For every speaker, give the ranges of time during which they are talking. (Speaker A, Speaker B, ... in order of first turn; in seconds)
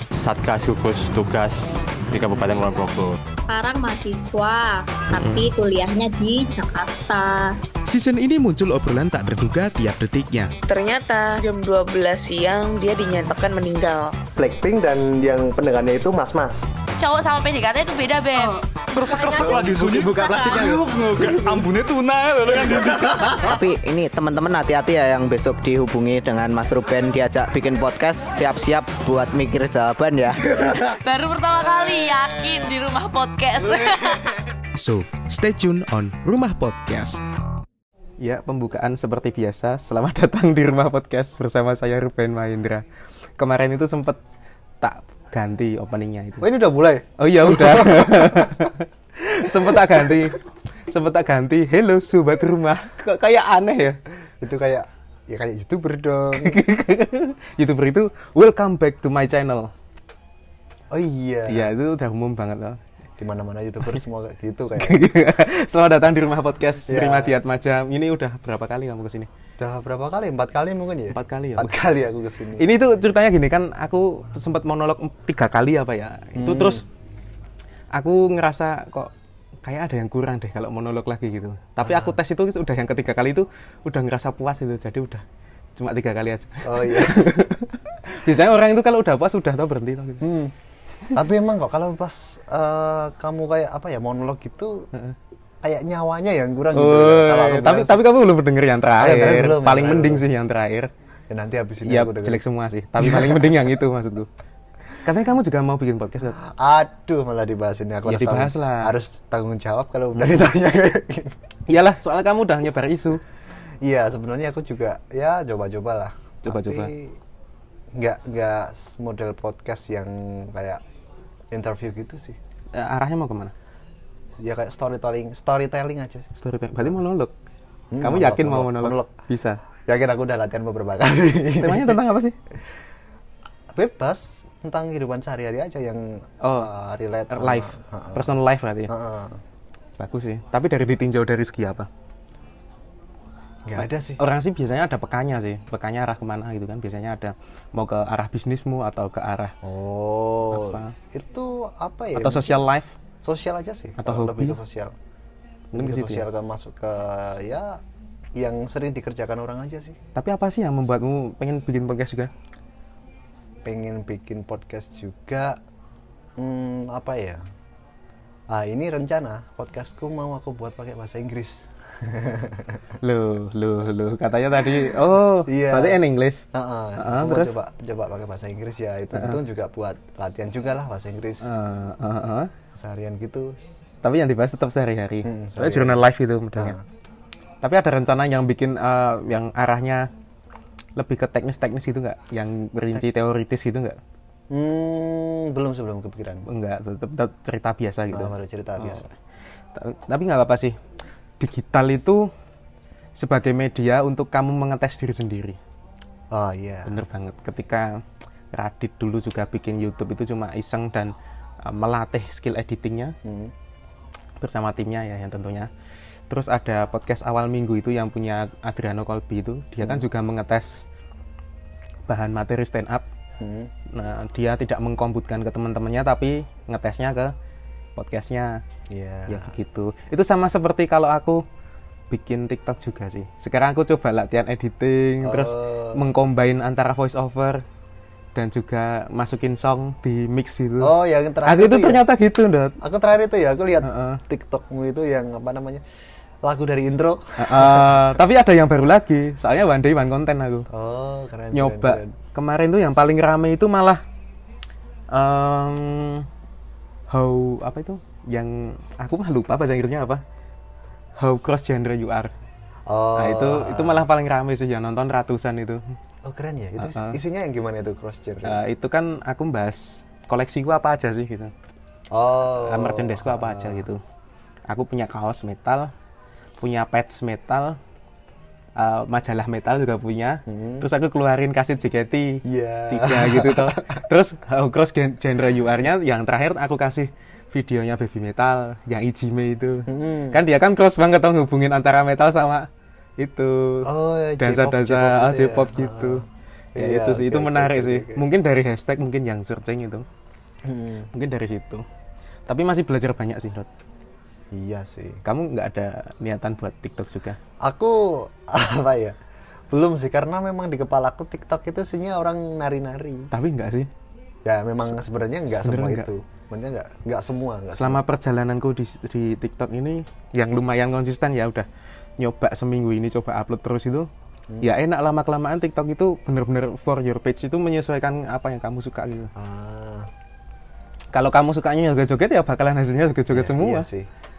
Speaker A: 0.2-3.1, 5.2-5.5
Speaker B: 3.5-7.5, 18.9-20.9
Speaker C: 7.9-10.5, 34.7-37.2
Speaker D: 10.7-14.2
Speaker E: 14.3-16.6, 46.4-48.7, 49.5-50.2, 54.4-56.6, 60.9-61.7, 63.2-65.1, 66.9-67.4, 69.6-72.7, 76.3-76.8, 81.8-82.1, 86.6-87.5, 90.2-90.5, 91.1-94.9, 95.6-98.0, 98.9-100.2, 101.3-102.4, 103.0-103.7, 106.2-111.4, 113.8-117.2, 117.9-120.8, 121.5-122.4, 124.4-126.3, 127.9-129.1, 129.8-132.0, 133.7-138.3, 138.9-139.4, 143.7-144.2, 149.6-152.6, 153.2-154.9, 155.7-157.8, 158.4-160.0, 163.6-165.6, 166.4-167.4, 168.5-172.8, 174.5-176.0, 176.5-181.5, 182.7-183.5, 185.2-186.0, 186.5-186.8, 194.5-196.4, 198.1-199.1, 206.3-207.0, 213.2-213.5, 219.8-220.1, 223.4-223.7, 228.9-229.5, 235.2-236.0, 240.8-242.0, 242.8-245.8, 246.4-248.2, 250.7-252.1, 262.9-264.1, 266.2-268.6, 272.1-273.9, 280.4-280.9, 282.4-284.0, 289.9-290.4, 293.8-296.2, 296.8-298.2, 300.6-301.1, 304.5-305.2, 307.6-309.1, 309.7-313.3, 314.4-318.0, 329.3-330.1, 333.3-334.1
Speaker F: 17.0-18.6, 20.2-20.9, 31.0-34.3
Speaker G: 23.2-30.5
Speaker H: 38.2-42.8, 43.4-44.2, 44.8-46.5, 47.2-54.0, 56.4-59.7, 61.5-62.8, 64.8-69.3, 71.1-71.8, 72.6-76.8, 77.9-79.1, 79.6-85.2, 85.8-90.2, 96.7-100.9, 101.8-104.3, 105.0-106.4, 108.0-108.9, 111.7-113.2, 116.4-116.9, 122.7-123.5, 126.3-127.3, 128.0-129.6, 131.6-132.3, 136.4-136.7, 137.3-138.9, 140.0-141.9, 143.8-149.5, 150.5-150.9, 152.1-152.9, 154.0-154.6, 155.7-156.2, 160.1-162.3, 173.0-176.4, 177.0-177.5, 179.1-179.4, 181.4-182.5, 184.0-186.8, 187.6-190.1, 190.9-194.0, 196.5-199.1, 199.7-200.7, 201.4-202.3, 203.2-205.6, 206.8-208.0, 208.5-213.1, 214.4-215.7, 216.3-220.8, 222.1-223.1, 223.9-227.3, 227.9-228.6, 229.3-231.4, 232.1-237.6, 238.3-240.9, 241.4-242.8, 243.8-244.2, 247.4-250.7, 251.5-254.0, 255.1-256.3, 257.1-260.2, 261.2-262.3, 263.2-265.9, 266.8-267.2, 268.4-271.5, 272.5-274.0, 274.7-275.9, 276.6-277.8, 278.8-292.7, 293.2-293.9, 294.4-296.2, 296.8-300.1, 301.1-301.8, 302.5-303.7, 305.2-307.4, 313.3-313.9, 314.8-316.1, 317.7-321.7, 322.2-324.1, 324.6-329.3, 331.1-333.9